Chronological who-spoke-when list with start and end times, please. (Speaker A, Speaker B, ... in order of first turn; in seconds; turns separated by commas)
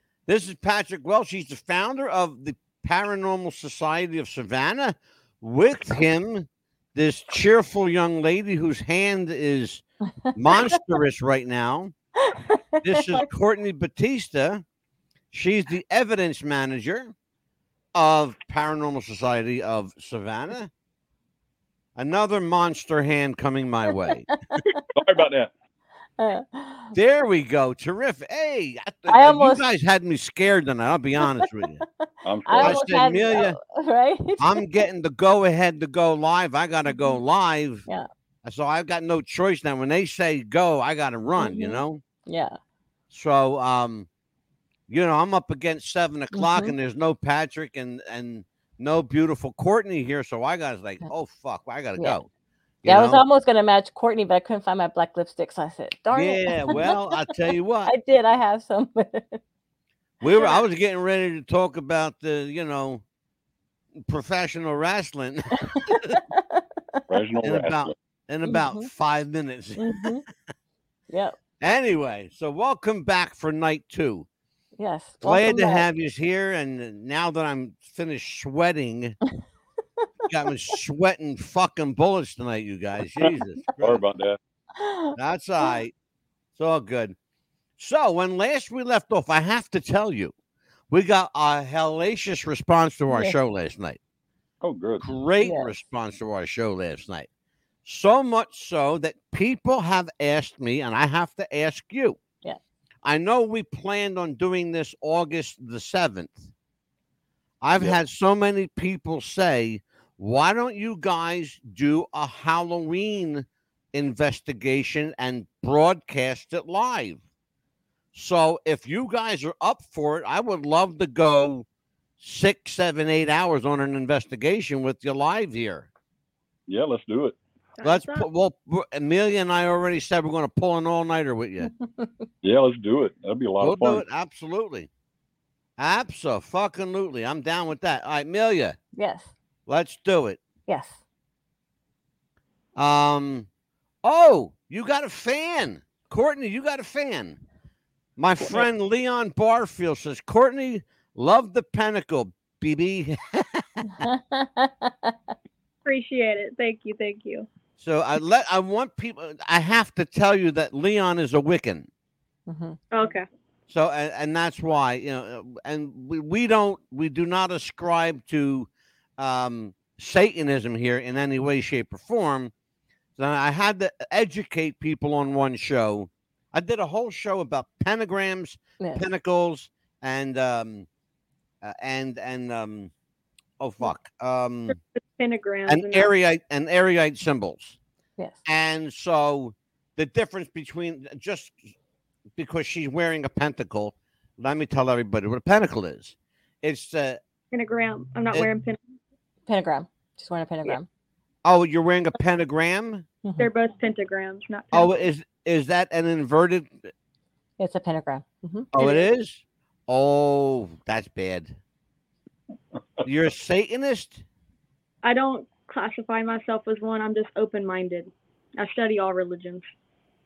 Speaker A: 0.3-11.9, Speaker B: 12.3-13.3, Speaker A: 12.8-14.6, Speaker A: 15.3-17.1, Speaker A: 17.9-20.7, Speaker A: 21.9-24.4, Speaker B: 24.6-24.8, Speaker C: 24.9-25.5, Speaker B: 26.2-26.9, Speaker A: 26.9-31.8, Speaker B: 29.1-29.6, Speaker B: 32.0-34.6, Speaker C: 32.2-32.8, Speaker A: 32.6-33.6, Speaker A: 34.4-37.9, Speaker A: 38.4-42.0, Speaker B: 41.4-42.6, Speaker A: 43.1-44.1, Speaker A: 44.9-52.3, Speaker B: 46.3-46.7, Speaker A: 52.8-53.2, Speaker B: 52.8-56.9, Speaker A: 56.1-57.9, Speaker B: 57.8-59.4, Speaker A: 60.2-63.0, Speaker A: 64.0-66.2, Speaker B: 65.9-67.0, Speaker C: 67.1-67.9, Speaker A: 67.4-70.1, Speaker B: 68.5-68.9, Speaker B: 69.8-70.2, Speaker B: 71.1-71.3, Speaker A: 71.6-74.3, Speaker B: 74.8-75.8, Speaker A: 75.2-79.2, Speaker A: 80.3-84.0, Speaker C: 83.8-84.4, Speaker B: 84.8-85.1, Speaker A: 85.2-85.9, Speaker A: 86.5-87.2, Speaker A: 87.8-90.3, Speaker A: 90.9-94.0, Speaker B: 93.1-93.3, Speaker C: 94.6-95.0, Speaker A: 95.0-97.3, Speaker B: 95.4-95.8, Speaker A: 97.8-102.2, Speaker A: 103.0-106.5, Speaker A: 107.6-117.2, Speaker A: 118.1-121.6, Speaker A: 122.2-125.9, Speaker C: 126.7-127.4, Speaker D: 127.7-128.2, Speaker A: 127.8-131.7, Speaker B: 131.6-132.2, Speaker C: 132.4-134.0, Speaker A: 133.6-134.9, Speaker A: 135.8-138.8, Speaker B: 138.9-139.3, Speaker A: 139.7-140.4, Speaker B: 140.7-141.0, Speaker A: 142.7-143.5, Speaker A: 144.0-147.4, Speaker A: 148.2-154.1, Speaker B: 154.0-155.3, Speaker D: 155.8-157.5, Speaker A: 157.8-161.9, Speaker B: 162.5-162.8, Speaker D: 162.9-163.2, Speaker A: 163.7-172.5, Speaker A: 173.2-180.9, Speaker B: 178.8-179.0, Speaker A: 181.6-182.9, Speaker A: 183.6-184.8, Speaker D: 184.7-186.1, Speaker A: 185.7-187.8, Speaker A: 188.4-191.6, Speaker A: 192.3-197.2, Speaker D: 197.5-198.8, Speaker B: 199.4-200.8, Speaker A: 201.4-203.1, Speaker D: 203.4-204.9, Speaker A: 204.7-206.9, Speaker B: 207.6-208.7, Speaker A: 208.7-211.6, Speaker A: 213.0-214.2, Speaker D: 215.0-219.6